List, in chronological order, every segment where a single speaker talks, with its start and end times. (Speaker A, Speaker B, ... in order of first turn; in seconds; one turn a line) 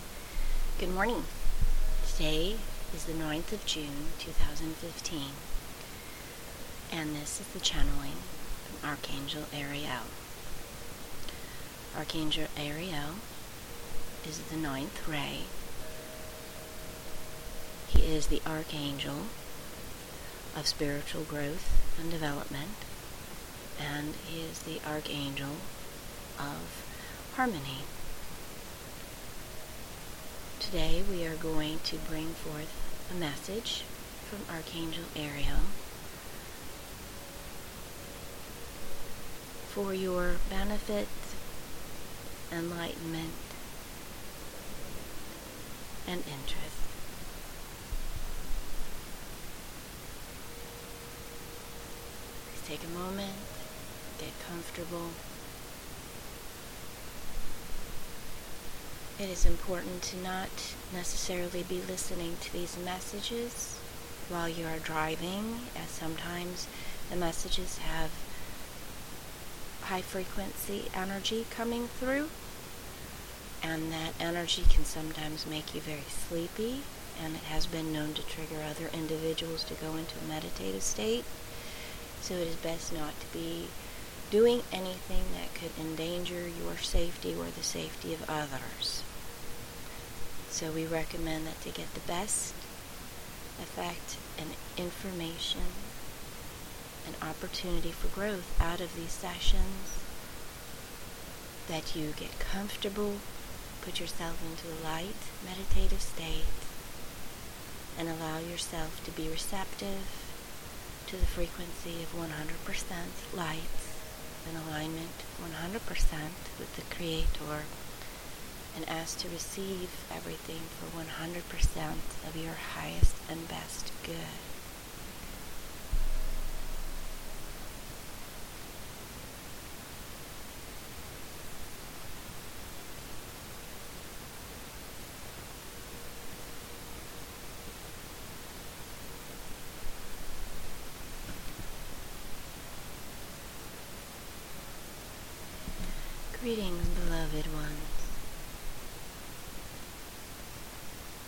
Speaker A: 0.8-1.3
Speaker A: 2.0-5.5
Speaker A: 6.9-10.2
Speaker A: 11.9-13.2
Speaker A: 14.2-15.5
Speaker A: 17.9-19.4
Speaker A: 20.5-22.9
Speaker A: 23.8-25.7
Speaker A: 26.4-27.9
Speaker A: 30.6-35.8
Speaker A: 39.7-41.4
Speaker A: 42.5-43.6
Speaker A: 46.1-47.0
Speaker A: 52.5-53.7
Speaker A: 54.2-55.2
Speaker A: 59.2-68.3
Speaker A: 69.8-72.3
Speaker A: 73.6-81.3
Speaker A: 82.2-83.8
Speaker A: 84.3-89.1
Speaker A: 90.5-92.7
Speaker A: 93.6-95.9
Speaker A: 97.0-100.1
Speaker A: 101.7-103.3
Speaker A: 103.8-106.7
Speaker A: 107.9-110.4
Speaker A: 111.0-117.7
Speaker A: 118.7-124.5
Speaker A: 146.3-148.2